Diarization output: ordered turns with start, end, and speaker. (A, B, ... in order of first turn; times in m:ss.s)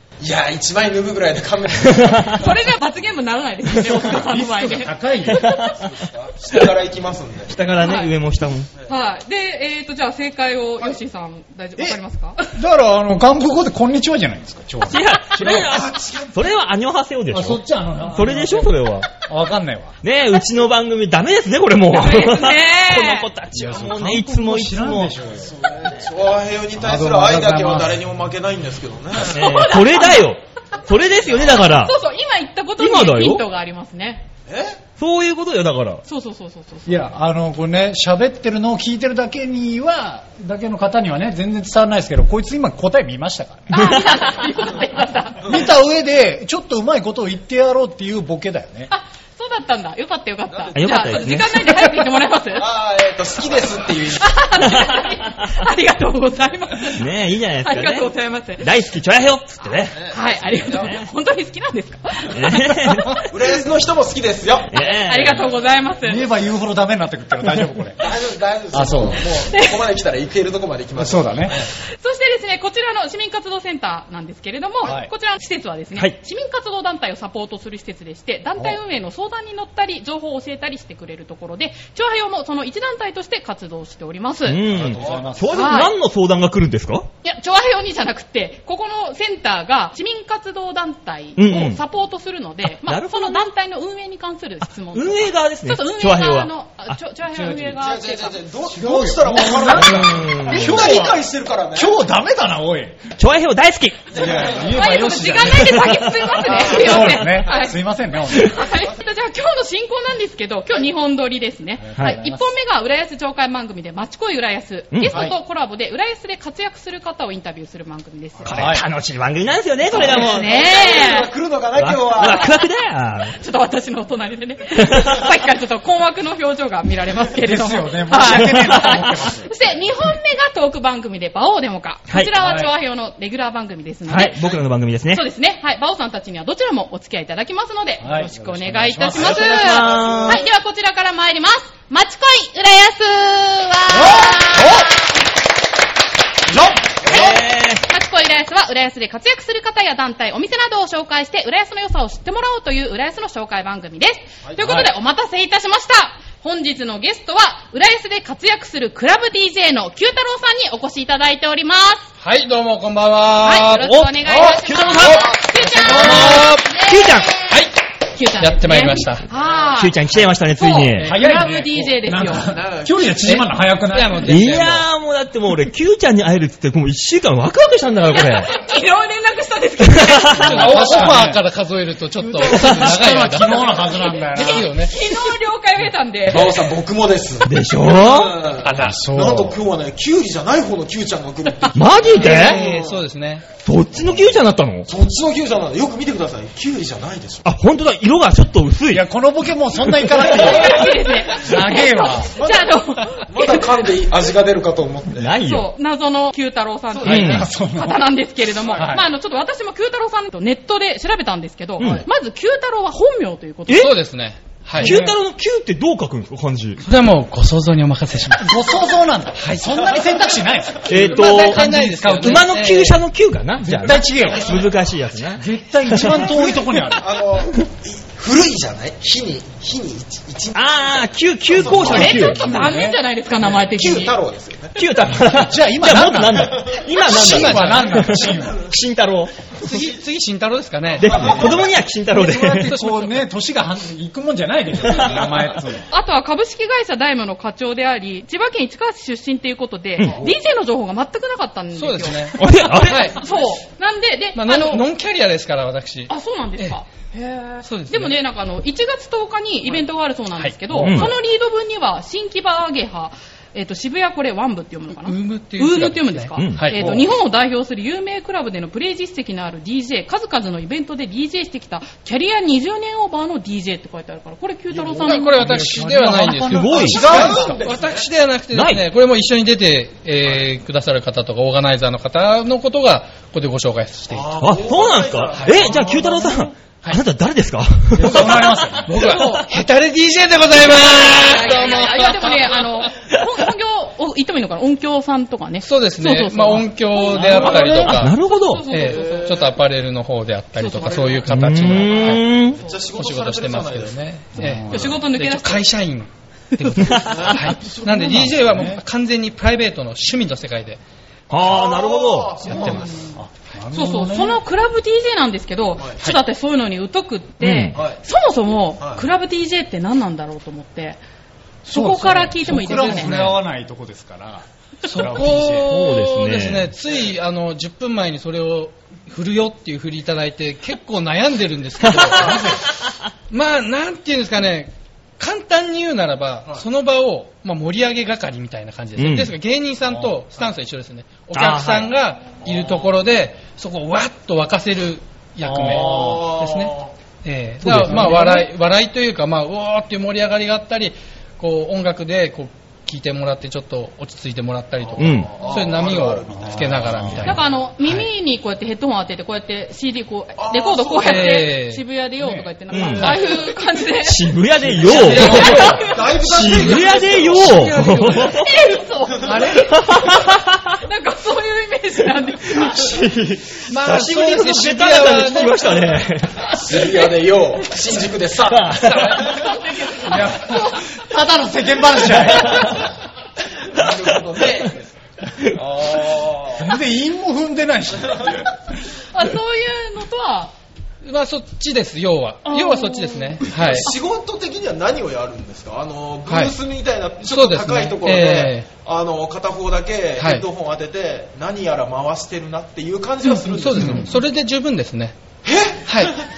0:00.2-0:02.5 A
0:02.4-0:05.7 B
0:03.8-0:05.5 C
0:05.4-0:05.7 D
0:05.6-0:07.6 A
0:07.5-0:08.7 D
0:07.8-0:08.1 B
0:08.8-0:12.5 B
0:12.5-0:15.7 C
0:14.9-0:19.1 D
0:15.4-0:16.4 A
0:17.3-0:20.0 C
0:20.0-0:25.2 D
0:21.9-0:23.3 B
0:23.5-0:25.6 C
0:25.4-0:29.4 A
0:26.8-0:28.0 C
0:29.2-0:32.0 D
0:29.3-0:30.9 B
0:31.5-0:34.3 B
0:32.8-0:33.4 D
0:34.5-0:34.8 A
0:35.0-0:36.0 D
0:36.0-0:37.1 B
0:36.9-0:44.0 C
0:43.7-0:45.5 B
0:45.4-0:48.9 C
0:48.9-0:52.7 B
0:50.5-0:51.4 A
0:50.8-0:51.5 D
0:52.5-0:54.5 A
0:54.2-0:57.1 B
0:57.0-1:00.0 D
0:57.6-0:58.7 B
0:59.6-1:03.2 B
0:59.9-1:01.0 A
1:02.3-1:03.2 D
1:03.3-1:04.7 A
1:04.7-1:05.5 D
1:04.8-1:06.3 B
1:06.0-1:08.1 C
1:08.0-1:11.7 A
1:08.7-1:09.3 C
1:09.5-1:09.8 B
1:11.0-1:11.6 C
1:11.9-1:24.6 B
1:14.8-1:15.1 C
1:24.5-1:27.1 D
1:24.7-1:25.6 C
1:24.7-1:25.4 A
1:25.5-1:25.9 B
1:27.2-1:38.4 B
1:31.4-1:31.8 D
1:32.7-1:33.5 D
1:34.7-1:36.5 D
1:37.3-1:37.8 C
1:37.8-1:42.0 A
1:38.7-1:43.0 C
1:39.6-1:41.0 D
1:43.2-1:44.1 D
1:44.1-1:44.8 A
1:44.1-1:48.6 C
1:44.5-1:58.8 B
1:45.6-1:46.2 D
1:46.5-1:47.3 A
1:48.5-1:49.0 A
1:51.8-1:52.5 C
1:54.9-1:55.3 D
1:58.4-2:00.6 D
1:58.5-1:58.9 C
1:59.9-2:02.6 A
1:59.9-2:01.3 B
2:01.8-2:03.4 D
2:02.3-2:02.5 B
2:03.3-2:14.5 B
2:07.3-2:09.5 C
2:08.3-2:09.0 D
2:12.4-2:12.7 C
2:14.1-2:15.2 D
2:15.1-2:25.1 B
2:18.0-2:19.6 C
2:19.1-2:20.4 A
2:19.1-2:20.4 D
2:24.0-2:24.9 C
2:24.2-2:24.6 A
2:26.8-2:27.4 A
2:27.0-2:42.1 B
2:27.0-2:27.8 D
2:34.4-2:34.8 A
2:42.2-2:44.0 E
2:43.4-2:47.6 B
2:43.8-2:45.4 D
2:45.0-2:45.4 A
2:45.6-2:46.4 C
2:45.8-2:46.7 E
2:45.9-2:47.3 D
2:48.1-2:52.5 B
2:48.4-2:49.3 E
2:49.8-2:51.1 D
2:51.0-2:54.5 C
2:52.4-2:53.4 A
2:53.2-2:54.8 E
2:54.2-2:58.5 D
2:58.1-3:01.0 B
3:00.0-3:00.7 D
3:00.4-3:05.0 E
3:00.4-3:01.4 C
3:02.2-3:04.7 C
3:03.4-3:06.7 B
3:06.3-3:13.0 A
3:07.4-3:08.4 D
3:08.6-3:09.6 C
3:11.7-3:12.6 D
3:12.2-3:13.5 E
3:13.6-3:14.9 D
3:14.0-3:14.4 A
3:14.9-3:17.5 A
3:17.4-3:19.0 D
3:18.9-3:22.4 C
3:20.2-3:23.8 B
3:20.5-3:20.7 A
3:22.3-3:25.3 A
3:25.2-3:25.7 D
3:25.4-3:33.9 B
3:26.9-3:27.4 A
3:27.0-3:27.5 D
3:27.2-3:28.0 C
3:28.7-3:29.0 C
3:33.7-3:35.1 E
3:34.8-3:36.8 D
3:34.8-3:35.1 C
3:36.8-3:38.6 E
3:38.4-3:42.6 C
3:39.4-3:39.8 E
3:39.8-3:40.4 A
3:40.9-3:46.3 D
3:41.0-3:43.0 E
3:43.6-3:44.6 C
3:45.4-3:47.1 C
3:46.1-3:52.4 A
3:50.5-3:52.6 D
3:51.7-3:53.0 C
3:51.9-3:54.2 B
3:53.4-3:54.8 A
3:54.8-3:59.6 D
3:55.1-3:58.7 C
3:56.6-3:57.1 A
3:57.2-3:58.2 E
3:58.3-3:58.6 A
3:59.6-4:01.3 E
3:59.7-4:00.0 A
4:01.0-4:01.8 A
4:01.0-4:02.7 D
4:02.1-4:05.9 C
4:02.6-4:03.2 E
4:04.9-4:05.4 D
4:05.9-4:14.8 B
4:11.8-4:13.2 E
4:12.4-4:13.1 D
4:14.4-4:16.8 E
4:16.1-4:35.8 B
4:17.6-4:18.2 E
4:20.4-4:21.1 E
4:20.8-4:21.1 D
4:24.9-4:27.0 E
4:26.4-4:26.6 D
4:34.7-4:35.2 A
4:35.0-4:44.4 E
4:35.3-4:37.6 C
4:36.5-4:37.2 D
4:36.7-4:38.1 A
4:38.5-4:38.8 D
4:44.1-4:46.4 A
4:44.4-4:48.8 D
4:45.4-4:45.8 E
4:48.0-4:49.0 C
4:48.9-4:52.6 E
4:48.9-4:49.6 B
4:50.9-4:59.5 B
4:55.6-4:58.2 E
4:57.1-4:57.8 A
4:57.6-4:58.6 D
4:58.7-5:02.3 E
4:58.7-4:59.6 A
5:00.6-5:01.3 B
5:01.3-5:02.6 D
5:01.8-5:04.0 A
5:02.5-5:02.8 B
5:02.9-5:10.8 E
5:04.4-5:05.0 C
5:04.7-5:05.7 B
5:06.8-5:07.3 D
5:07.1-5:07.5 A
5:07.6-5:08.8 C
5:11.3-5:12.8 D
5:11.4-5:13.1 A
5:12.6-5:13.1 B
5:12.7-5:14.4 C
5:13.7-5:21.0 B
5:15.8-5:16.2 A
5:17.4-5:17.8 D
5:17.8-5:18.0 A
5:18.8-5:19.1 A
5:21.6-5:25.7 C
5:21.7-5:23.2 B
5:22.5-5:23.4 E
5:24.9-5:32.5 E
5:25.6-5:26.7 D
5:31.9-5:32.3 D
5:32.0-5:32.7 C
5:33.3-5:58.0 E
5:39.0-5:39.3 D
5:39.9-5:40.2 C
5:41.3-5:41.9 D
5:42.4-5:42.8 A
5:45.4-5:46.3 C
5:45.6-5:46.9 A
5:47.6-5:48.4 D
5:47.8-5:48.4 C
5:54.9-5:57.4 A
5:55.0-5:55.4 D
5:56.3-5:57.4 C
5:57.2-6:04.3 B
6:00.4-6:01.4 A
6:01.0-6:01.8 E
6:02.2-6:03.1 C
6:02.7-6:03.2 D
6:02.9-6:03.3 E
6:04.0-6:08.5 D
6:04.8-6:07.8 A
6:04.8-6:08.5 E
6:04.9-6:06.0 B
6:08.3-6:13.0 B
6:09.1-6:09.5 A
6:09.2-6:09.7 E
6:09.6-6:10.4 D
6:12.5-6:16.6 D
6:13.7-6:15.8 E
6:16.5-6:19.5 A
6:18.5-6:19.3 D
6:19.1-6:21.1 B
6:20.0-6:22.8 C
6:22.5-6:22.8 B
6:23.6-6:24.9 A
6:25.5-6:26.8 A
6:26.6-6:28.5 C
6:29.0-6:30.5 B
6:31.0-6:33.9 E
6:32.5-6:33.9 B
6:33.5-6:44.2 A
6:36.3-6:36.6 E
6:37.2-6:38.7 E
6:40.2-6:40.5 E
6:43.4-6:45.2 E
6:43.8-6:44.1 C
6:45.4-6:46.2 A
6:45.9-6:46.2 E